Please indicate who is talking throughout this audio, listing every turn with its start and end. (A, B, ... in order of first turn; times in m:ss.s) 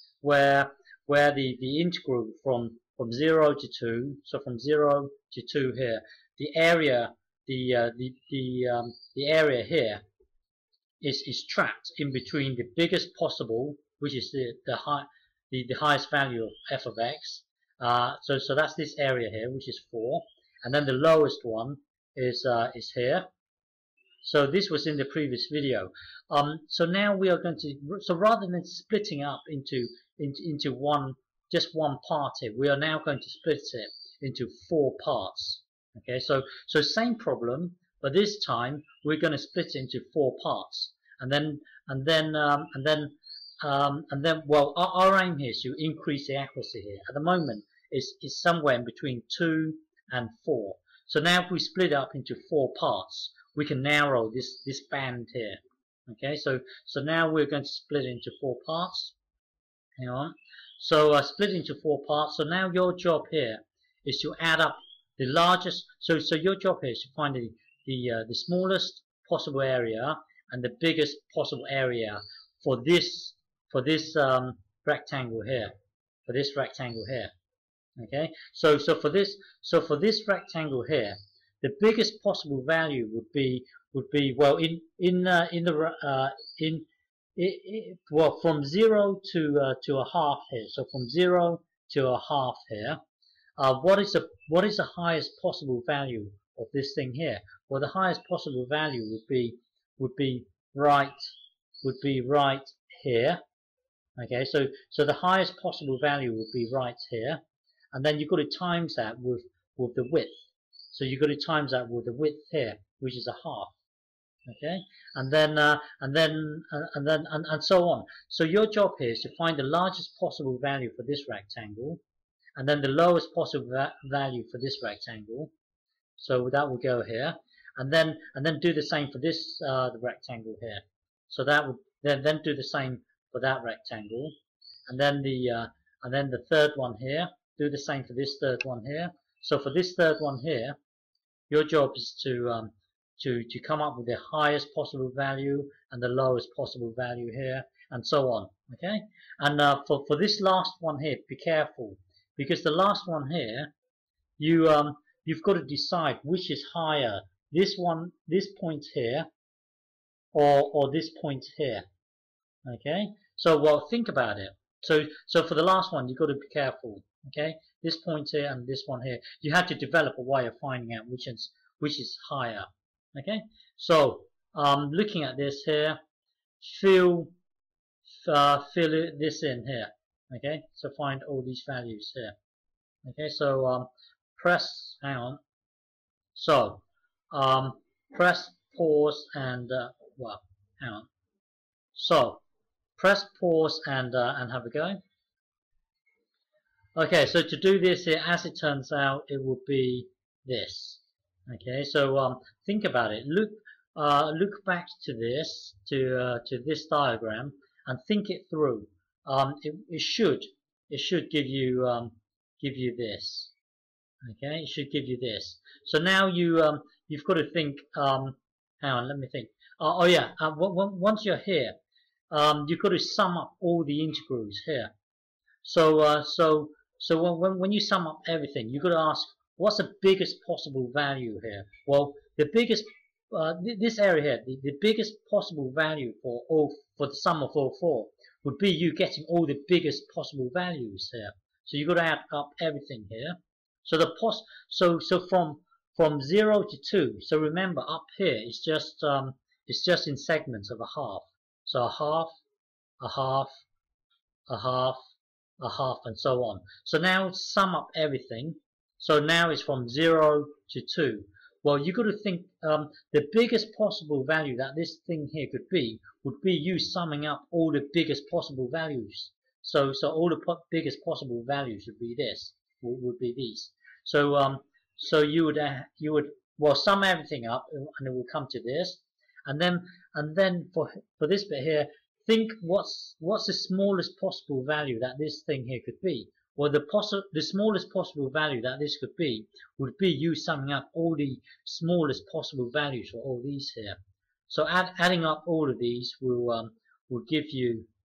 0:00.2-0:10.0 A
0:11.0-0:23.3 A
0:24.2-0:59.2 A
1:00.0-1:15.8 A
1:16.3-1:17.3 A
1:18.0-1:33.0 A
1:33.6-1:41.3 A
1:41.8-1:43.4 A
1:44.2-1:47.4 A
1:47.9-1:53.7 A
1:54.5-2:02.0 A
2:02.6-2:05.5 A
2:06.2-2:14.3 A
2:14.9-2:20.8 A
2:21.5-2:33.7 A
2:34.4-2:39.3 A
2:40.3-2:41.9 A
2:42.6-2:56.0 A
2:56.6-2:57.3 A
2:58.2-3:02.3 A
3:03.0-3:05.4 A
3:06.4-3:11.1 A
3:12.0-3:12.4 A
3:13.0-3:15.0 A
3:17.0-3:33.5 A
3:34.2-3:41.8 A
3:42.3-3:44.9 A
3:45.6-4:12.3 A
4:13.0-4:13.6 A
4:14.5-4:15.0 A
4:15.6-4:57.9 A